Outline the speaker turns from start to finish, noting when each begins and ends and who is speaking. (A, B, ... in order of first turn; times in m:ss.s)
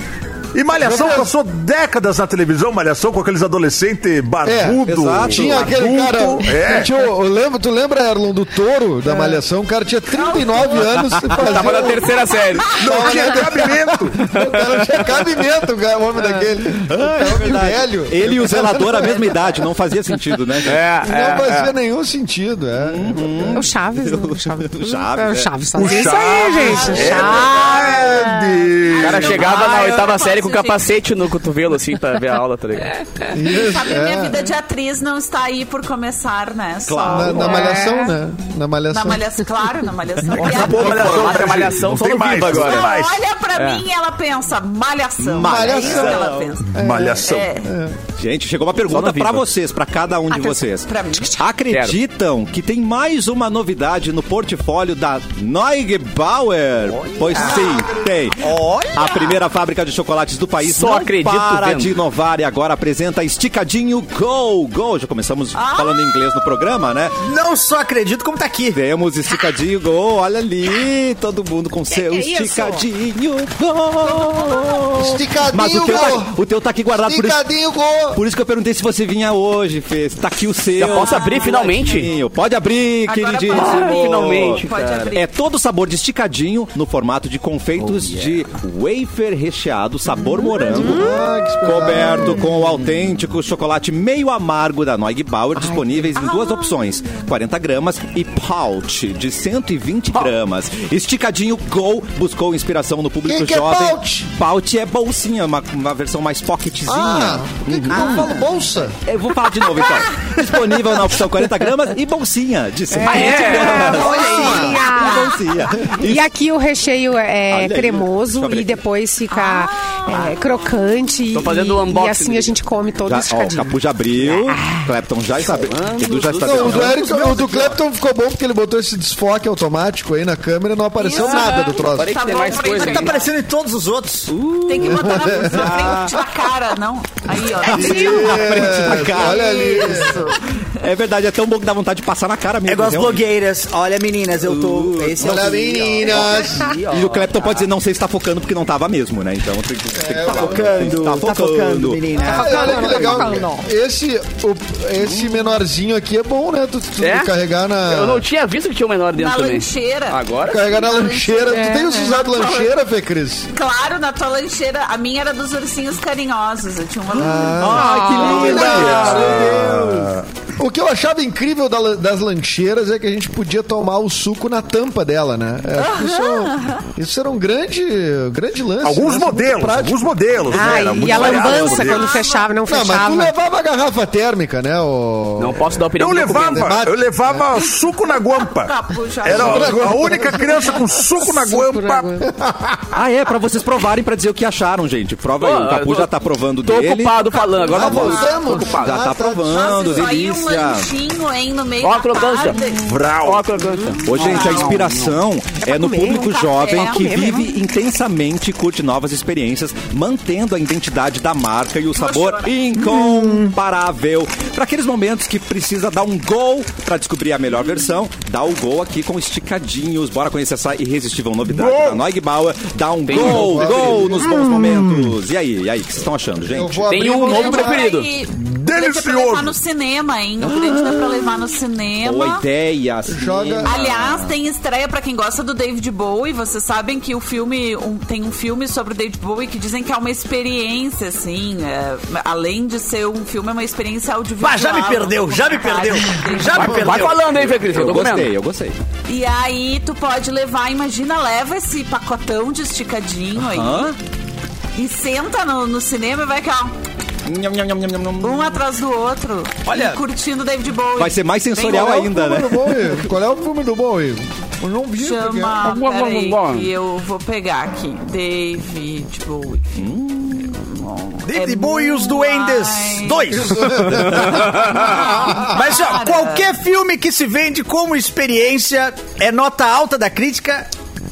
0:00.5-0:06.9 A
0:00.8-0:01.3 B
0:04.4-0:12.0 B
0:04.8-0:05.7 C
0:10.1-0:13.1 D
0:11.4-0:12.8 E
0:12.8-0:14.2 A
0:12.8-0:19.4 B
0:14.2-0:15.1 E
0:16.8-0:20.8 C
0:20.6-0:21.7 E
0:21.0-0:23.7 B
0:22.8-0:26.1 C
0:23.5-0:28.6 F
0:25.7-0:29.5 A
0:26.1-0:28.3 D
0:28.9-0:31.1 D
0:29.0-0:33.1 E
0:33.3-0:34.4 B
0:33.5-0:38.0 D
0:36.8-0:37.7 C
0:37.1-0:39.2 B
0:37.4-0:38.1 F
0:38.9-0:41.6 D
0:40.4-0:42.9 E
0:40.4-0:43.2 A
0:42.4-0:47.7 D
0:43.5-0:43.8 E
0:45.2-0:46.6 C
0:45.4-0:48.0 B
0:46.7-0:47.6 A
0:48.2-1:07.2 C
0:48.8-0:49.5 E
0:50.3-0:51.4 D
0:51.7-0:52.0 E
0:56.8-0:57.8 G
0:57.3-0:58.1 B
0:58.4-0:59.4 G
1:00.6-1:02.0 E
1:05.5-1:06.7 D
1:07.2-1:08.8 G
1:08.7-1:17.4 C
1:14.0-1:14.8 D
1:14.9-1:18.2 B
1:18.1-1:48.4 C
1:20.8-1:22.1 E
1:20.8-1:22.1 D
1:23.1-1:25.3 D
1:23.5-1:24.7 E
1:30.4-1:31.1 F
1:30.6-1:32.6 B
1:36.1-1:37.2 D
1:43.3-1:44.2 B
1:46.8-1:49.0 B
1:49.0-1:56.3 C
1:52.9-2:04.6 F
1:53.0-1:54.6 E
1:53.9-1:54.8 B
1:54.0-1:55.4 D
1:57.5-1:58.8 C
1:59.3-2:00.4 D
2:01.3-2:02.6 E
2:03.0-2:07.2 C
2:05.6-2:07.0 E
2:06.4-2:12.2 B
2:06.9-2:07.7 G
2:11.0-2:13.3 D
2:11.2-2:13.3 E
2:12.7-2:14.3 G
2:14.3-2:16.2 C
2:14.6-2:20.5 D
2:14.8-2:15.8 B
2:17.6-2:20.1 C
2:17.6-2:20.3 B
2:20.8-2:23.3 C
2:22.6-2:26.3 G
2:24.4-2:26.3 C
2:25.2-2:26.8 B
2:26.5-2:27.6 E
2:26.9-2:32.0 C
2:29.9-2:30.9 B
2:30.3-2:33.5 G
2:32.2-2:33.6 F
2:32.2-2:38.2 B
2:37.0-2:40.7 E
2:39.1-2:42.7 D
2:40.4-2:43.5 B
2:41.5-2:41.8 F
2:43.5-2:49.2 D
2:47.1-2:49.9 B
2:47.6-2:50.1 C
2:47.9-2:48.5 G
2:48.0-2:48.4 F
2:48.3-2:50.2 A
2:50.6-3:01.0 B
2:55.8-2:56.8 D
2:58.8-3:02.1 A
3:00.5-3:03.3 F
3:01.1-3:01.8 C
3:01.2-3:02.5 D
3:02.7-3:05.8 B
3:05.4-3:06.8 E
3:06.0-3:08.7 A
3:06.5-3:07.5 B
3:08.4-3:10.0 D
3:09.2-3:12.1 A
3:09.2-3:10.6 B
3:11.2-3:12.2 F
3:12.3-3:12.9 B
3:12.9-3:17.2 C
3:15.4-3:16.1 E
3:16.6-3:18.9 E
3:17.1-3:18.8 D
3:17.7-3:20.1 B
3:18.8-3:20.9 C
3:19.5-3:22.9 D
3:21.8-3:22.6 E
3:22.8-3:23.5 A
3:23.2-3:25.2 E
3:24.0-3:24.9 D
3:24.0-3:46.9 C
3:25.6-3:27.5 F
3:26.4-3:27.3 D
3:31.9-3:32.6 D
3:41.5-3:42.0 A
3:43.0-3:44.2 E
3:43.1-3:44.8 B
3:46.5-3:47.8 B
3:46.8-3:48.1 E
3:47.2-3:52.4 D
3:48.3-3:49.6 A
3:50.4-3:51.3 C
3:52.0-3:54.4 C
3:53.1-3:53.8 B
3:53.6-4:07.1 D
4:04.4-4:07.2 G
4:06.5-4:08.3 E
4:07.3-4:08.8 C
4:09.1-4:13.9 D
4:13.4-4:14.0 C
4:14.8-4:16.7 D
4:17.2-4:18.6 C
4:18.2-4:22.1 D
4:19.6-4:20.0 C
4:21.0-4:23.0 C
4:21.6-4:25.7 B
4:25.0-4:29.8 D
4:25.6-4:26.7 E
4:29.8-4:30.5 C
4:30.4-4:33.6 D
4:31.2-4:34.1 G
4:33.3-4:35.5 B
4:34.5-4:36.5 D
4:35.4-4:40.7 G